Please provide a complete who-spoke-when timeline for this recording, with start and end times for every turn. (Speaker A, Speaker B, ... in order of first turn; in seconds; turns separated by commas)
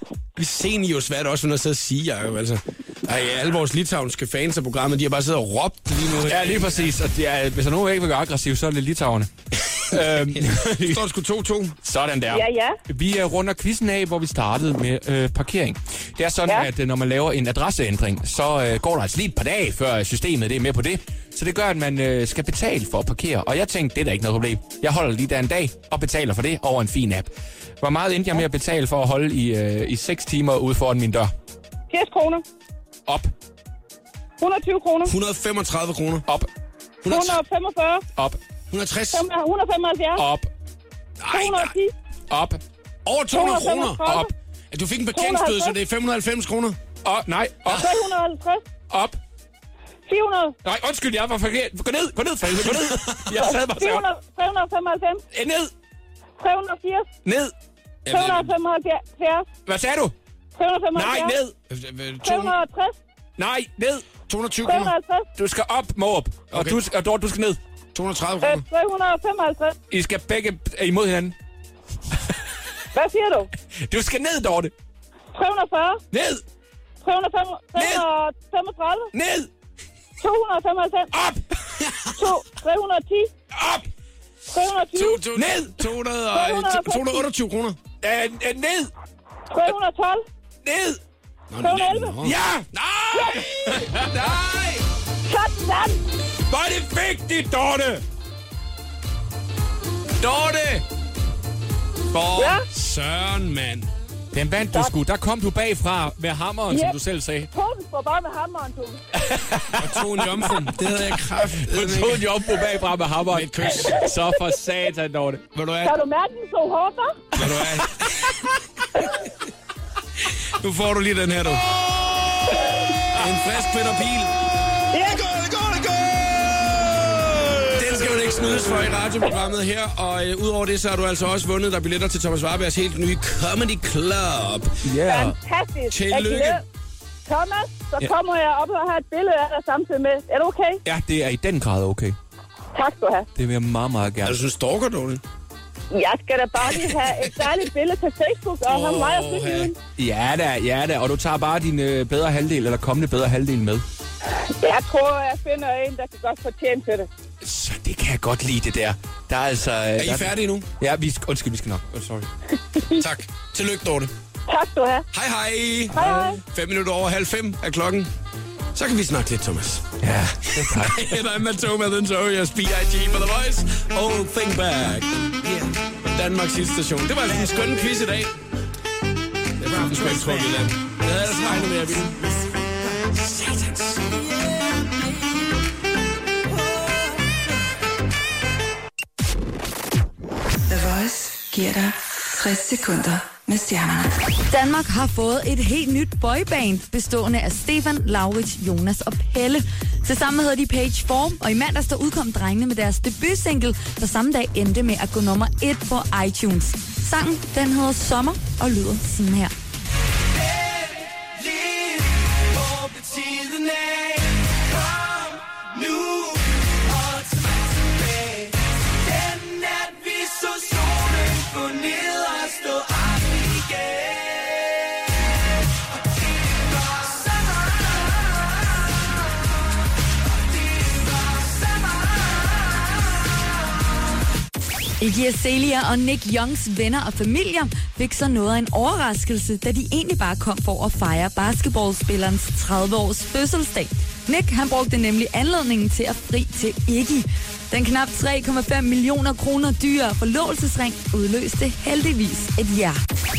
Speaker A: 0.4-6.9, Speaker B: 6.2-11.0, Speaker A: 9.7-11.8, Speaker B: 11.8-31.3, Speaker C: 12.3-12.8, Speaker C: 31.9-32.4, Speaker C: 34.4-35.1, Speaker A: 35.0-36.2, Speaker A: 37.0-37.4, Speaker C: 37.0-38.0, Speaker A: 38.7-39.2, Speaker C: 39.1-40.2, Speaker B: 40.1-40.5, Speaker A: 41.2-41.7, Speaker C: 41.3-41.9, Speaker B: 42.3-42.6, Speaker A: 43.0-46.8, Speaker C: 43.3-44.3, Speaker C: 45.1-45.7, Speaker B: 47.0-47.9, Speaker C: 47.7-48.6, Speaker B: 48.9-49.2, Speaker C: 50.0-50.6, Speaker B: 50.6-54.0, Speaker A: 52.5-53.2, Speaker C: 53.3-55.2, Speaker B: 55.3-55.7, Speaker C: 56.4-57.1, Speaker B: 57.2-57.5, Speaker A: 58.0-58.5, Speaker C: 58.1-59.5, Speaker B: 59.6-60.1, Speaker C: 60.6-61.4, Speaker B: 60.9-61.5, Speaker A: 61.7-62.6, Speaker C: 62.2-63.0, Speaker B: 63.4-64.0, Speaker A: 64.3-65.0, Speaker C: 64.6-65.3, Speaker B: 65.4-67.6, Speaker A: 66.5-66.8, Speaker A: 67.9-68.7, Speaker C: 68.4-69.8, Speaker B: 69.9-71.3, Speaker C: 72.9-73.5, Speaker B: 73.8-74.7, Speaker C: 75.3-76.0, Speaker B: 76.1-76.4, Speaker C: 77.0-79.1, Speaker B: 77.7-78.0, Speaker B: 79.1-79.5, Speaker C: 80.2-81.1, Speaker B: 81.1-81.4, Speaker A: 81.8-82.1, Speaker C: 82.1-83.3, Speaker B: 83.5-83.8, Speaker C: 84.5-85.2, Speaker A: 84.9-87.8, Speaker B: 85.3-85.8, Speaker C: 86.3-87.2, Speaker B: 88.0-88.9, Speaker C: 89.5-90.2, Speaker B: 90.6-91.0, Speaker A: 91.5-94.8, Speaker C: 91.6-92.2, Speaker B: 92.2-94.4, Speaker C: 93.1-93.4, Speaker C: 95.2-96.0, Speaker B: 96.5-98.0, Speaker A: 100.2-100.8, Speaker A: 102.1-103.9, Speaker C: 102.3-102.6, Speaker B: 104.3-107.5, Speaker C: 106.7-107.0, Speaker C: 107.5-109.0, Speaker B: 109.1-115.4, Speaker A: 109.8-112.3, Speaker A: 113.3-114.1, Speaker A: 115.5-116.0, Speaker C: 115.8-117.4, Speaker A: 117.4-118.3, Speaker B: 117.6-118.5, Speaker A: 120.2-126.8, Speaker C: 124.9-125.2, Speaker A: 127.7-134.8, Speaker B: 134.8-135.3, Speaker C: 135.0-136.6, Speaker A: 135.9-136.6, Speaker C: 137.2-140.8, Speaker B: 140.8-142.2, Speaker C: 142.7-143.3, Speaker B: 143.3-144.4, Speaker A: 144.2-145.2, Speaker C: 145.9-149.8, Speaker A: 148.7-149.7, Speaker B: 150.0-153.8, Speaker C: 154.3-157.1, Speaker B: 157.4-162.3, Speaker A: 160.0-160.7, Speaker C: 162.8-163.0, Speaker A: 162.9-164.1, Speaker C: 164.5-165.1, Speaker A: 165.1-168.1, Speaker C: 165.9-166.4, Speaker A: 168.7-178.3, Speaker B: 170.0-171.1, Speaker B: 177.5-177.8, Speaker A: 179.6-182.3, Speaker A: 183.1-184.2, Speaker D: 190.7-194.2, Speaker E: 194.5-209.5, Speaker B: 210.5-224.7, Speaker B: 226.5-227.2, Speaker E: 235.0-253.0